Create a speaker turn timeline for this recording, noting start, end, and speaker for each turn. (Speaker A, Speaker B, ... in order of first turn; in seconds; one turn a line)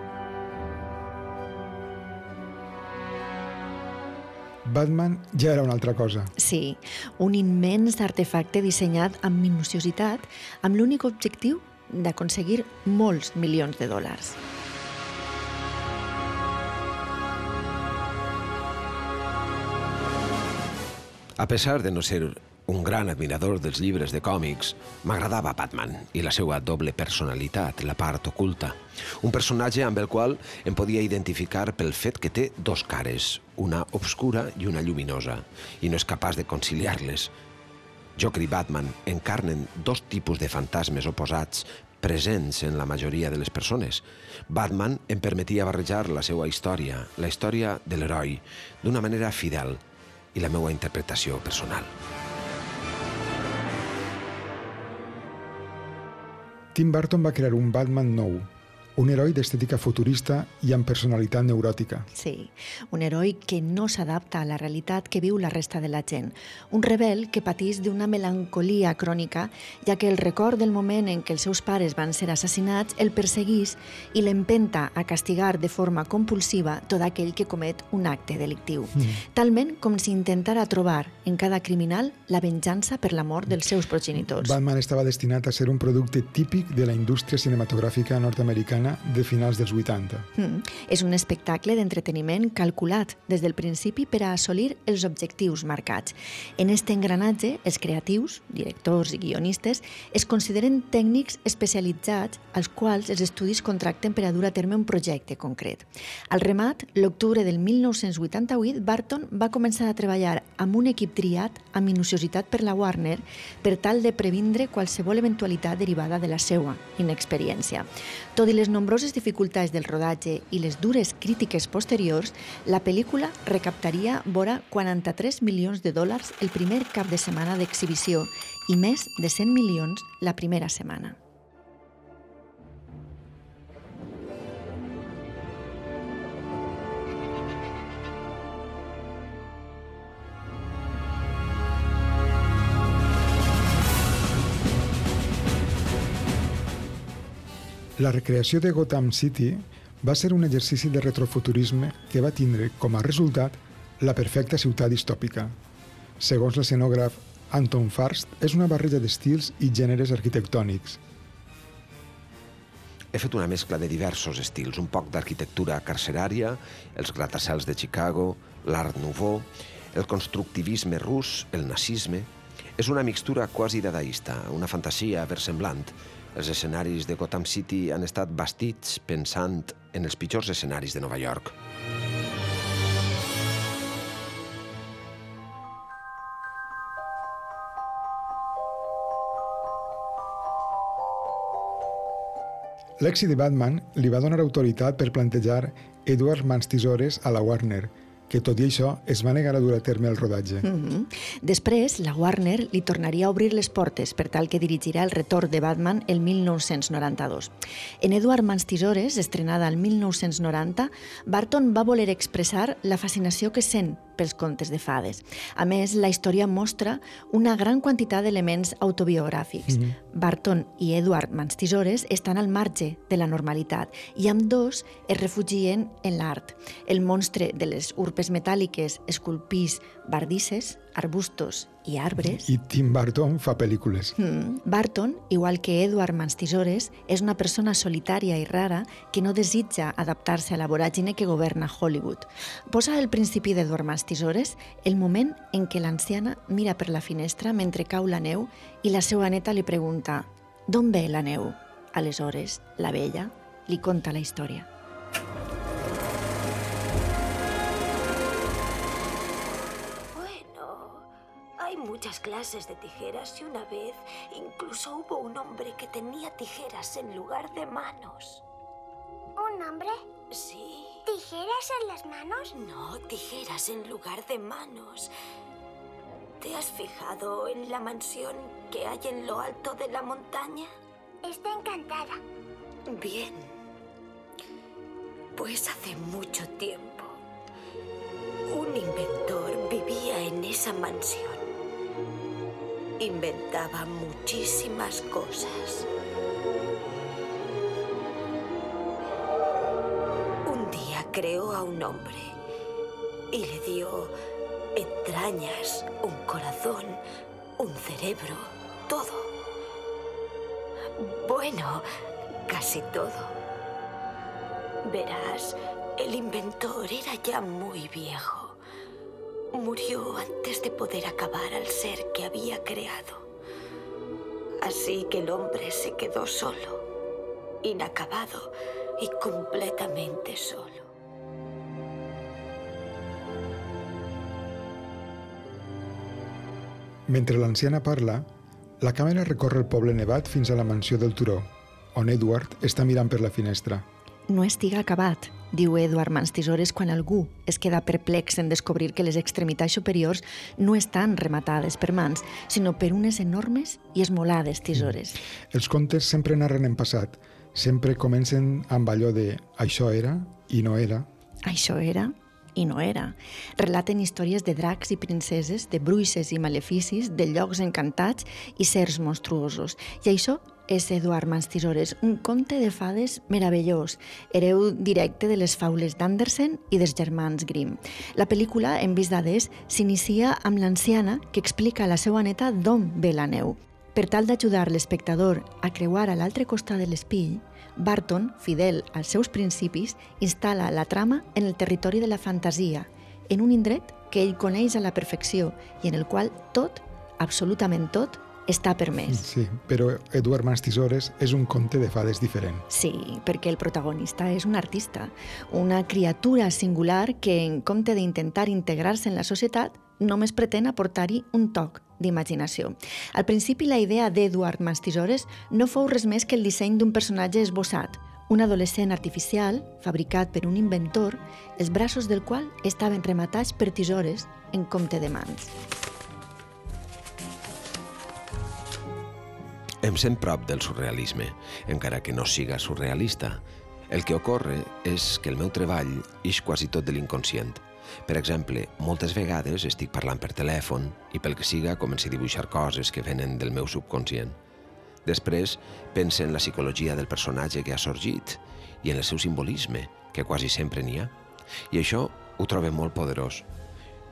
Speaker A: 4.6-6.3
Speaker B: 6.4-14.4
Speaker C: 21.4-37.3
Speaker C: 38.1-49.8
Speaker C: 50.3-51.9
Speaker A: 56.7-62.1
Speaker B: 62.1-84.6
Speaker A: 79.0-79.2
Speaker A: 84.2-90.3
Speaker B: 90.4-131.2
Speaker A: 148.0-155.6
Speaker A: 156.2-161.0
Speaker C: 163.1-181.5
Speaker A: 193.0-200.7
Speaker B: 200.6-232.5
Speaker A: 219.7-219.9
Speaker A: 232.2-234.2
Speaker B: 234.2-254.7
Speaker D: 260.1-261.1
Speaker D: 261.6-268.4
Speaker E: 269.4-270.0
Speaker D: 270.3-271.0
Speaker E: 271.1-272.5
Speaker D: 272.6-275.1
Speaker D: 276.4-280.7
Speaker E: 281.2-282.2
Speaker D: 282.9-283.5
Speaker D: 285.4-287.1
Speaker D: 288.5-291.5
Speaker D: 293.0-295.9
Speaker D: 300.4-302.4
Speaker D: 303.3-304.1
Speaker D: 304.8-307.0
Speaker D: 307.6-309.3
Speaker D: 311.0-311.9
Speaker D: 312.5-313.4
Speaker D: 314.9-318.6
Speaker D: 319.5-323.3
Speaker D: 324.6-326.9
Speaker D: 327.6-330.9
Speaker A: 337.1-338.3
Speaker A: 338.8-343.9
Speaker B: 344.3-355.2
Speaker A: 355.5-361.1
Speaker B: 361.4-399.2
Speaker A: 399.1-402.6
Speaker B: 402.7-425.5
Speaker C: 429.8-444.4
Speaker C: 445.1-451.1
Speaker C: 451.7-453.4